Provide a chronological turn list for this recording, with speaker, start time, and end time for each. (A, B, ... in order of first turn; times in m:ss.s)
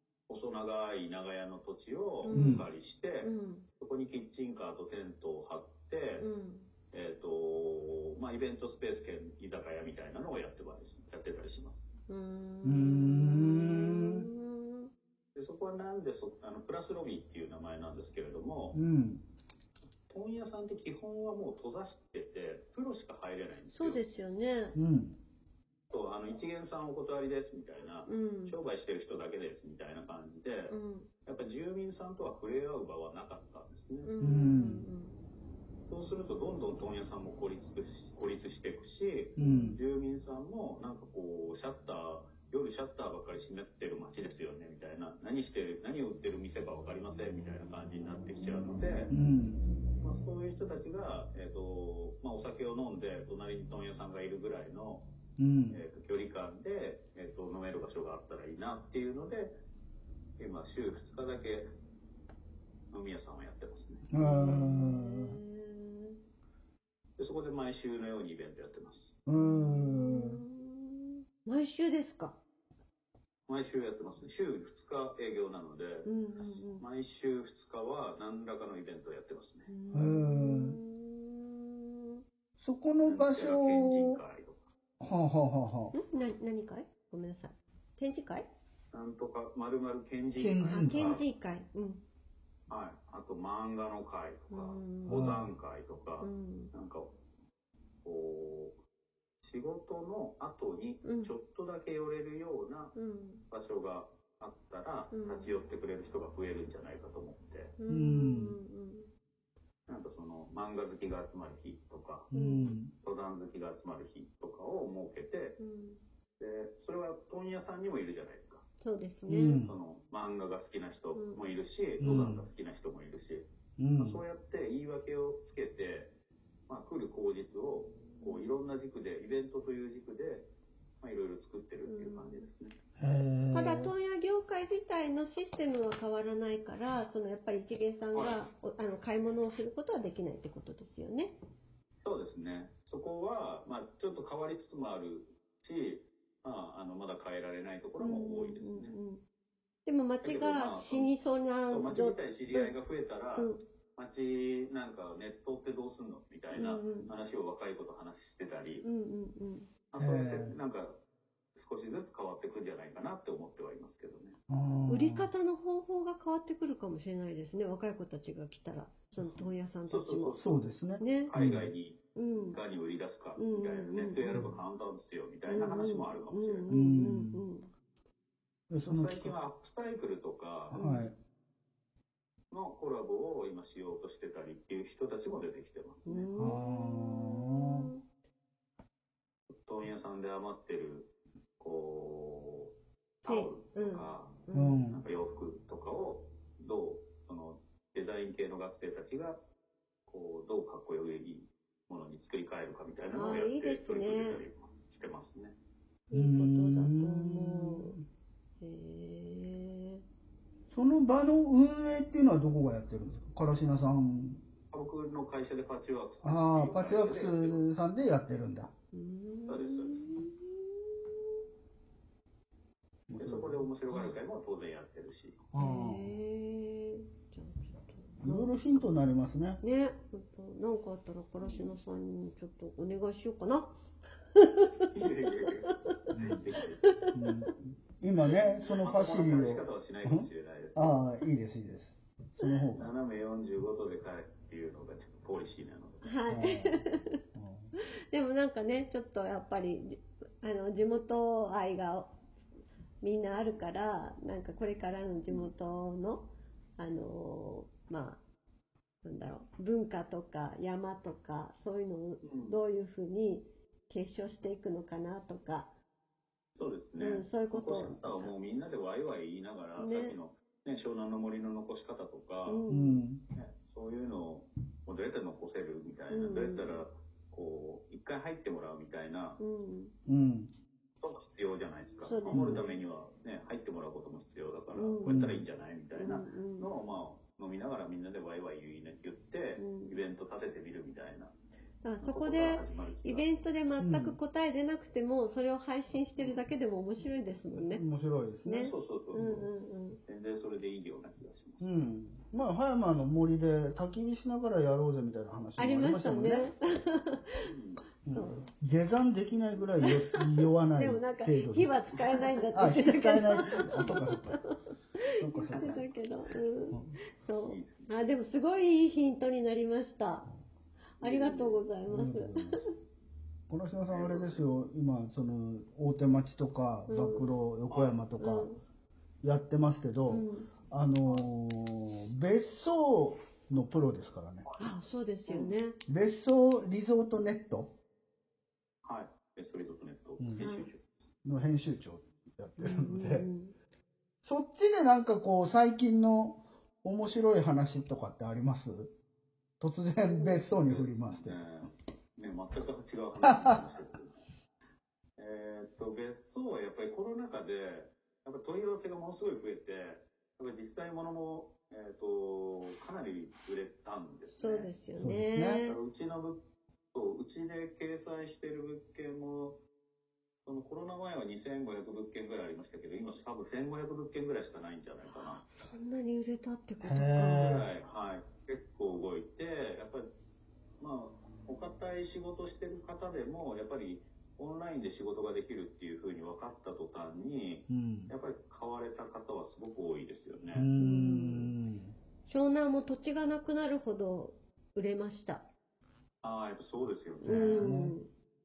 0:00.3-0:06.3 A
0:02.2-0:02.6 B
0:02.3-0:02.7 C
0:03.2-0:03.7 B
0:06.2-0:06.7 B
0:06.9-0:11.8 A
0:12.1-0:14.9 B
0:12.6-0:14.3 C
0:15.3-0:18.8 A
0:18.7-0:19.2 C
0:20.1-0:24.0 A
0:23.7-0:24.8 B
0:24.7-0:25.2 C
0:25.9-0:34.1 A
0:28.0-0:28.6 B
0:30.7-0:31.1 B
0:34.0-0:35.2 B
0:34.2-0:34.8 C
0:35.9-0:49.1 A
0:39.4-0:39.8 C
0:39.4-0:39.8 B
0:49.1-0:49.6 C
0:50.0-0:55.0 A
0:55.4-0:55.8 C
0:55.7-0:59.5 A
1:00.4-1:01.7 A
1:02.9-1:04.0 A
1:04.1-1:05.4 C
1:04.2-1:06.2 B
1:07.2-1:09.2 A
1:09.2-1:10.4 C
1:09.3-1:12.4 B
1:13.5-1:16.1 A
1:16.0-1:16.8 B
1:16.8-1:19.7 A
1:19.7-1:22.2 B
1:19.9-1:20.8 C
1:22.6-1:24.2 C
1:23.0-1:24.6 A
1:25.0-1:25.9 C
1:25.9-1:28.4 B
1:28.9-1:31.2 A
1:30.3-1:31.2 C
1:30.7-1:32.0 B
1:32.7-1:37.1 A
1:34.5-1:35.3 B
1:35.0-1:35.5 C
1:36.2-1:36.7 B
1:38.0-1:38.8 A
1:39.4-1:42.9 A
1:41.0-1:41.3 B
1:42.9-1:43.4 B
1:43.5-1:47.7 A
1:45.1-1:45.5 B
1:47.8-1:49.1 B
1:47.9-1:48.6 C
1:49.9-1:52.3 A
1:52.3-1:52.8 B
1:52.3-1:52.9 C
1:53.0-1:55.6 A
1:55.6-1:56.0 B
1:56.4-1:58.6 A
1:58.8-1:59.6 B
1:59.3-1:59.7 C
1:59.6-2:06.1 A
2:01.1-2:01.4 B
2:02.0-2:02.5 C
2:03.8-2:04.2 C
2:06.7-2:10.5 A
2:08.2-2:08.5 B
2:11.0-2:12.8 A
2:11.8-2:12.4 B
2:13.0-2:13.9 C
2:13.5-2:21.4 B
2:21.9-2:28.9 A
2:28.0-2:29.2 B
2:29.8-2:32.7 B
2:30.2-2:31.1 A
2:31.7-2:38.8 A
2:36.5-2:37.1 B
2:38.8-2:39.7 B
2:39.9-2:41.0 A
2:40.0-2:40.6 C
2:41.6-2:44.4 A
2:44.5-2:45.3 C
2:44.9-2:50.4 B
2:49.2-2:49.5 C
2:49.9-2:50.6 A
2:50.4-2:51.7 C
2:51.0-2:51.3 B
2:51.2-2:56.7 A
2:52.2-2:52.6 B
2:53.4-2:54.4 B
2:54.3-2:54.6 C
2:55.4-2:57.7 B
2:56.7-2:57.4 C
2:58.7-2:59.4 C
2:58.9-3:00.8 A
3:00.7-3:01.2 C
3:00.7-3:01.1 B
3:02.5-3:06.3 A
3:06.0-3:08.0 B
3:06.4-3:07.9 C
3:09.6-3:19.4 A
3:13.2-3:14.8 B
3:14.5-3:15.0 C
3:20.1-3:25.6 A
3:23.1-3:24.4 B
3:26.1-3:27.9 B
3:26.1-3:28.0 C
3:28.6-3:30.0 B
3:30.7-3:34.4 C
3:34.7-3:37.6 A
3:36.2-3:38.7 C
3:38.9-3:41.2 B
3:39.4-3:40.0 A
3:43.1-3:44.1 C
3:43.2-3:45.4 A
3:45.5-3:46.1 C
3:45.6-3:48.6 B
3:48.2-3:49.6 C
3:49.6-3:53.7 B
3:54.4-3:54.9 B
3:54.9-3:56.9 A
3:56.1-3:56.4 C
3:56.8-3:57.3 B
3:57.1-4:02.9 C
3:58.4-4:01.0 A
4:02.8-4:06.1 A
4:06.0-4:07.1 B
4:06.3-4:07.7 C
4:08.1-4:12.1 B
4:13.0-4:18.2 B
4:19.0-4:25.7 B
4:22.2-4:22.6 A
4:26.6-4:32.6 A
4:27.0-4:28.3 B
4:29.8-4:30.2 B
4:32.4-4:33.0 B
4:32.7-4:33.2 C
4:33.3-4:39.4 A
4:36.1-4:36.8 B
4:39.4-4:39.9 B
4:40.0-4:40.5 C
4:41.0-4:51.3 A
4:42.0-4:42.8 B
4:42.2-4:42.6 C
4:44.7-4:45.2 B
4:45.1-4:45.4 C
4:45.9-4:46.7 B
4:49.6-4:50.0 B
4:51.8-4:57.8 B
4:52.0-4:53.3 A
4:53.8-4:54.2 C
4:57.5-4:59.5 C
4:58.4-5:00.0 B
4:58.6-4:59.3 A
5:00.1-5:01.8 A
5:01.6-5:06.5 C
5:05.6-5:07.4 B
5:07.4-5:07.8 A
5:08.0-5:11.7 C
5:08.1-5:08.5 B
5:09.8-5:14.5 B
5:12.5-5:14.4 C
5:13.5-5:14.1 A
5:15.2-5:15.9 C
5:15.3-5:20.3 B
5:15.4-5:15.9 A
5:16.7-5:17.0 C
5:17.4-5:18.0 A
5:21.0-5:22.5 B
5:21.0-5:21.6 A
5:21.9-5:22.6 C
5:23.5-5:28.5 C
5:23.9-5:24.4 A
5:26.9-5:27.3 B
5:27.7-5:28.0 A
5:28.2-5:28.6 B
5:29.2-5:34.4 C
5:30.1-5:30.5 B
5:34.6-5:35.8 B
5:35.3-5:35.5 A
5:35.9-5:37.8 C
5:38.8-5:40.8 A
5:40.2-5:40.5 C
5:40.4-5:40.7 B
5:41.2-5:43.3 C
5:42.6-5:43.5 B
5:44.2-5:48.9 C
5:49.6-5:51.4 C
5:50.1-5:50.4 B
5:50.3-5:54.2 A
5:53.2-5:53.6 C
5:55.2-6:04.7 A
6:04.3-6:05.8 B
6:05.0-6:05.6 C
6:05.6-6:09.6 A
6:10.4-6:15.4 A
6:15.4-6:17.6 B
6:16.8-6:17.7 C
6:17.3-6:20.1 A
6:20.8-6:30.7 A
6:27.7-6:28.1 C
6:30.5-6:32.0 C
6:30.8-6:31.5 B
6:32.3-6:35.5 B
6:36.2-6:37.7 A
6:37.2-6:38.1 B
6:37.2-6:38.0 C